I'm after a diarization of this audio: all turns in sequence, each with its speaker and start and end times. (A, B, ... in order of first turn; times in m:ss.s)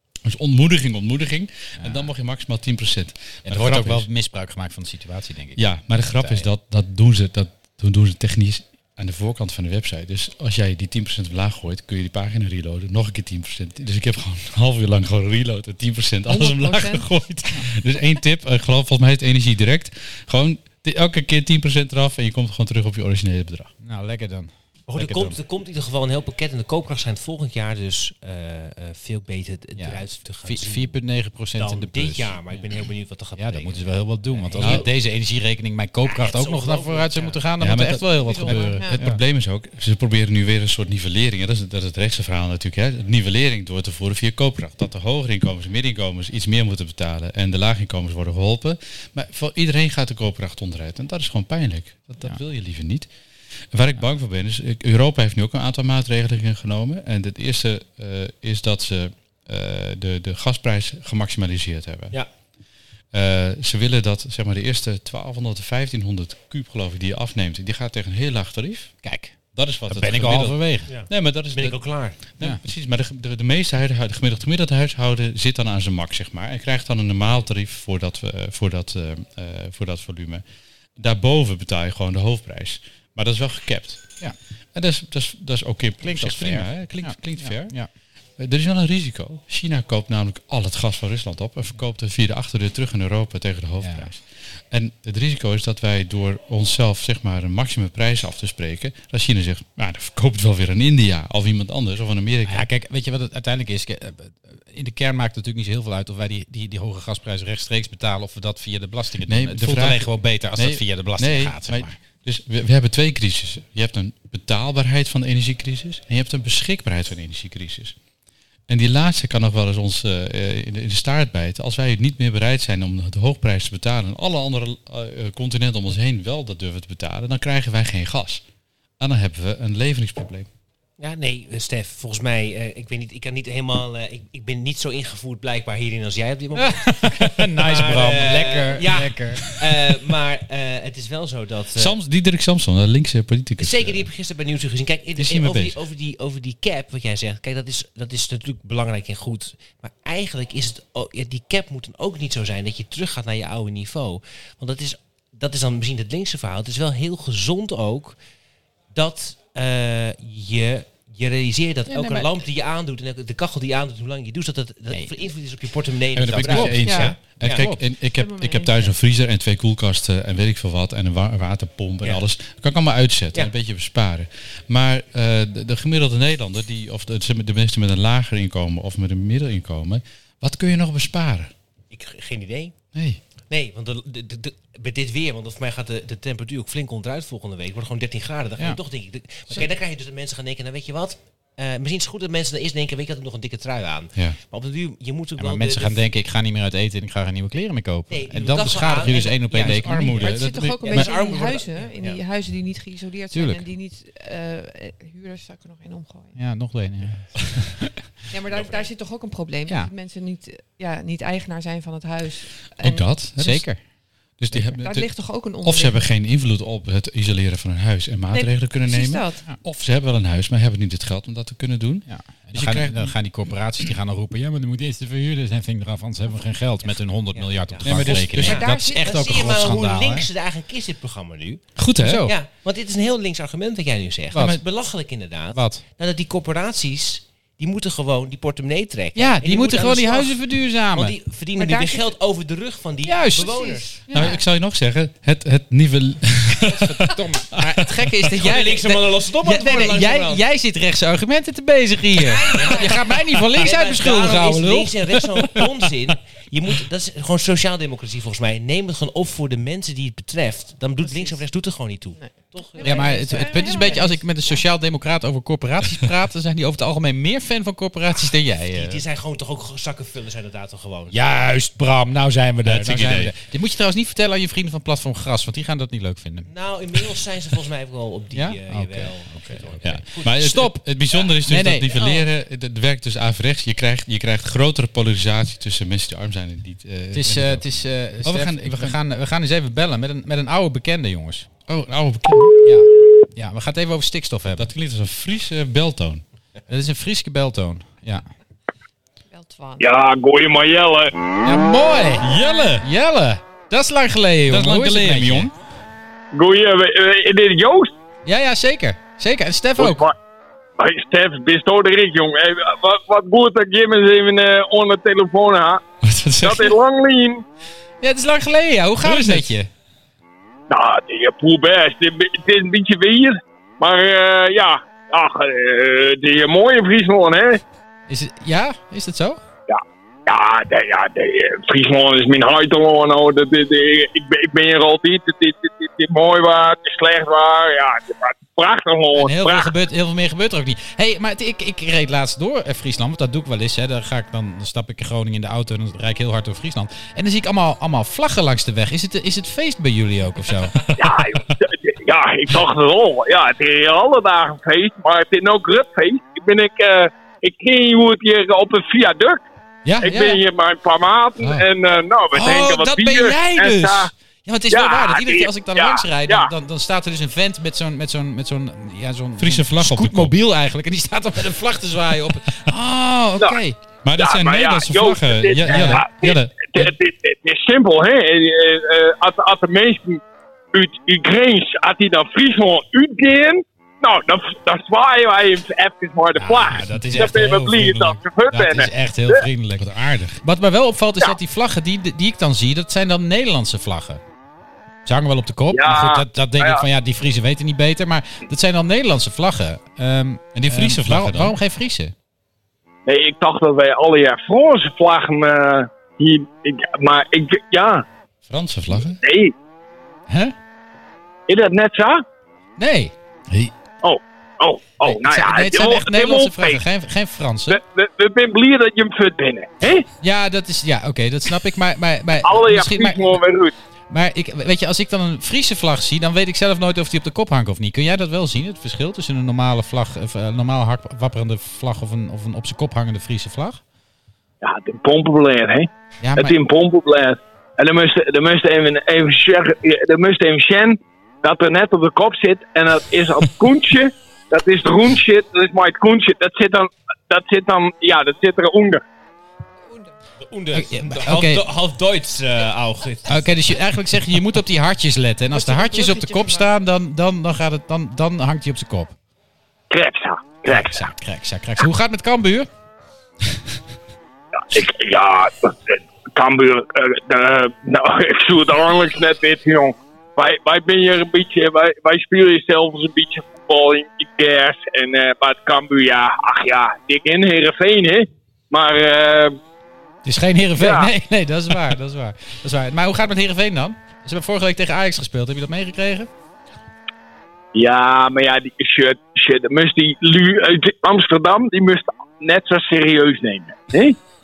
0:00.2-0:04.1 A
0:01.8-0:02.1 B
0:03.4-0:06.5 B
0:05.6-0:23.7 A
0:16.3-0:17.0 C
0:23.8-0:25.4 B
0:24.9-0:31.0 D
0:29.8-0:32.4 B
0:31.6-0:34.9 D
0:33.4-0:39.2 B
0:34.6-0:34.8 A
0:36.0-0:37.4 D
0:37.6-0:53.1 A
0:38.2-0:39.0 C
0:53.7-1:02.2 A
1:03.1-1:08.9 A
1:09.0-1:09.3 B
1:09.5-1:20.4 A
1:09.9-1:10.9 B
1:10.9-1:12.2 D
1:21.0-1:24.1 A
1:24.7-1:27.7 A
1:26.0-1:27.9 B
1:28.4-1:42.7 A
1:33.8-1:34.1 B
1:42.4-1:52.0 B
1:49.2-1:57.9 A
1:58.7-2:08.4 A
2:09.0-2:10.5 A
2:11.0-2:21.9 D
2:16.5-2:19.4 B
2:21.8-2:24.0 A
2:23.6-2:38.2 D
2:25.2-2:25.8 A
2:38.9-2:47.6 D
2:41.9-2:42.4 B
2:46.2-3:01.5 A
2:46.2-2:47.8 B
2:48.2-2:48.9 C
3:01.9-3:02.7 D
3:02.9-3:03.2 A
3:03.5-3:16.0 D
3:15.4-3:20.3 B
3:18.1-3:20.1 D
3:19.5-3:21.1 A
3:20.2-3:26.4 C
3:20.8-3:22.2 D
3:23.3-3:23.7 B
3:26.4-3:28.0 B
3:28.3-3:33.0 C
3:28.5-3:28.9 D
3:29.7-3:29.9 B
3:32.8-3:33.7 A
3:33.4-3:33.8 B
3:34.4-3:43.1 A
3:34.7-3:36.0 C
3:38.3-3:39.4 C
3:42.1-3:50.3 B
3:46.8-3:51.6 D
3:47.8-3:48.7 A
3:48.4-3:49.6 C
3:51.8-3:52.3 A
3:52.0-3:52.3 B
3:52.2-4:03.9 D
3:54.3-3:54.6 B
3:54.3-3:54.6 A
3:55.5-3:55.8 B
3:59.1-4:01.2 B
4:01.5-4:02.1 C
4:03.0-4:04.4 B
4:03.4-4:04.4 C
4:04.1-4:08.1 A
4:06.5-4:15.8 B
4:08.3-4:10.4 D
4:12.3-4:24.0 D
4:12.4-4:12.9 C
4:21.0-4:21.4 C
4:22.2-4:24.6 C
4:22.8-4:29.0 B
4:28.7-4:31.2 D
4:31.1-4:37.0 B
4:32.6-4:33.3 A
4:36.5-4:40.4 D
4:38.3-4:40.8 B
4:39.8-4:49.0 A
4:41.4-4:42.2 B
4:47.1-4:51.5 B
4:51.7-4:52.7 A
4:52.6-4:54.7 B
4:54.6-4:56.2 A
4:56.7-4:58.2 B
4:59.3-4:59.8 C
4:59.8-5:01.1 E
5:01.4-5:05.5 B
5:02.2-5:02.9 A
5:04.5-5:05.5 A
5:06.3-5:07.9 E
5:08.2-5:10.1 B
5:09.8-5:10.1 E
5:10.8-5:15.8 E
5:16.0-5:16.8 A
5:16.4-5:17.4 E
5:18.0-5:19.7 B
5:19.0-5:19.5 A
5:20.7-5:27.6 E
5:28.1-5:29.4 B
5:29.7-5:39.7 E
5:39.1-5:50.8 B
5:51.0-5:59.4 E
5:59.8-6:00.4 B
6:00.0-6:04.1 E
6:01.4-6:01.6 A
6:02.3-6:13.8 B
6:04.7-6:06.5 E
6:09.4-6:10.3 A
6:14.0-6:16.9 A
6:14.2-6:20.2 E
6:15.6-6:16.0 B
6:20.7-6:29.4 E
6:26.4-6:34.2 B
6:27.0-6:27.4 A
6:35.0-6:42.1 B
6:35.7-6:36.8 E
6:40.5-6:41.5 A
6:43.0-6:48.0 E
6:48.4-6:49.2 A
6:48.9-6:49.5 E
6:50.3-6:50.5 B
6:51.5-6:52.2 E
6:52.8-6:53.7 B
6:54.0-6:56.8 E
6:55.0-6:57.8 B
6:57.7-7:00.1 E
7:00.2-7:03.4 B
7:02.4-7:03.7 E
7:04.1-7:13.8 B
7:14.6-7:29.0 E
7:16.2-7:16.6 B
7:29.8-7:30.1 C
7:30.4-7:33.6 D
7:30.7-7:31.6 B
7:33.2-7:39.1 B
7:35.5-7:36.7 C
7:39.9-7:41.0 E
7:40.6-7:42.7 B
7:44.5-7:59.6 E
8:00.2-8:06.3 B
8:00.8-8:01.1 E
8:07.7-8:14.2 E